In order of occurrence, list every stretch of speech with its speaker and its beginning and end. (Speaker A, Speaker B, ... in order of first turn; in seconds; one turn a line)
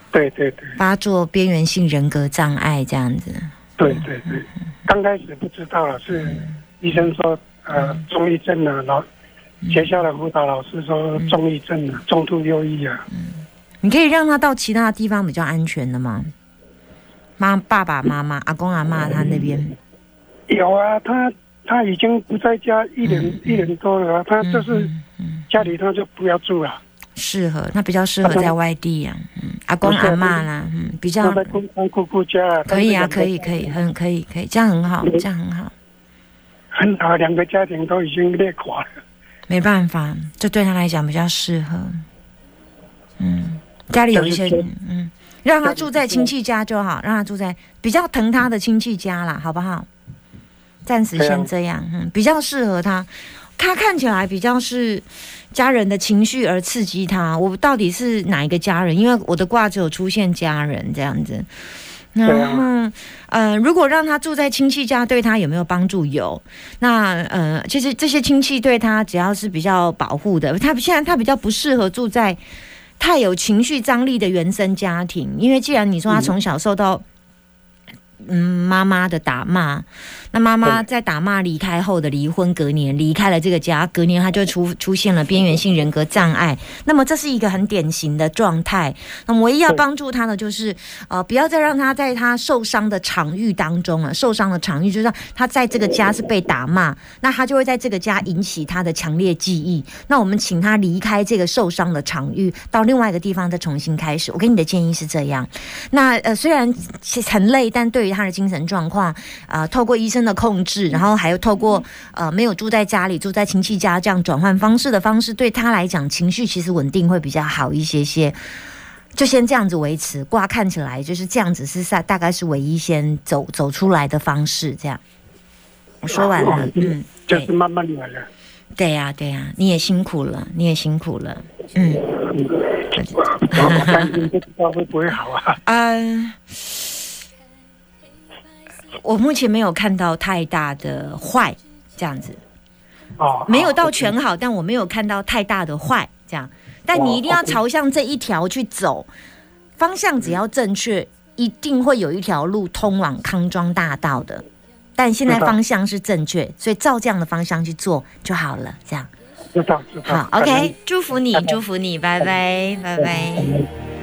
Speaker A: 0.1-0.8
Speaker B: 0.8-4.4
Speaker A: 3.8-9.0
Speaker B: 6.1-6.6
Speaker B: 7.7-8.0
Speaker B: 9.6-9.9
Speaker A: 9.7-13.0
Speaker B: 13.1-16.3
Speaker B: 17.4-19.8
Speaker A: 20.5-24.9
Speaker B: 23.0-23.7
Speaker B: 24.4-25.5
Speaker A: 25.5-26.8
Speaker B: 27.1-31.5
Speaker A: 28.2-28.5
Speaker A: 29.8-30.4
Speaker A: 31.2-33.8
Speaker B: 32.7-35.7
Speaker A: 36.7-38.9
Speaker B: 39.5-42.0
Speaker B: 43.2-49.9
Speaker A: 44.1-44.6
Speaker A: 45.6-46.3
Speaker B: 50.8-61.5
Speaker A: 51.1-51.5
Speaker B: 62.1-72.4
Speaker A: 62.2-62.7
Speaker B: 73.0-77.0
Speaker B: 78.2-118.4
Speaker B: 119.1-125.0
Speaker B: 126.0-127.5
Speaker A: 126.1-128.3
Speaker B: 128.8-132.1
Speaker A: 132.1-132.6
Speaker B: 132.9-134.2
Speaker A: 133.2-135.6
Speaker B: 135.6-136.8
Speaker B: 139.0-142.4
Speaker A: 143.2-144.1
Speaker B: 143.5-149.1
Speaker A: 146.9-147.6
Speaker B: 149.8-154.4
Speaker B: 155.0-159.1
Speaker A: 155.3-155.6
Speaker A: 159.5-160.7
Speaker B: 160.1-163.6
Speaker A: 161.3-161.6
Speaker A: 163.0-163.7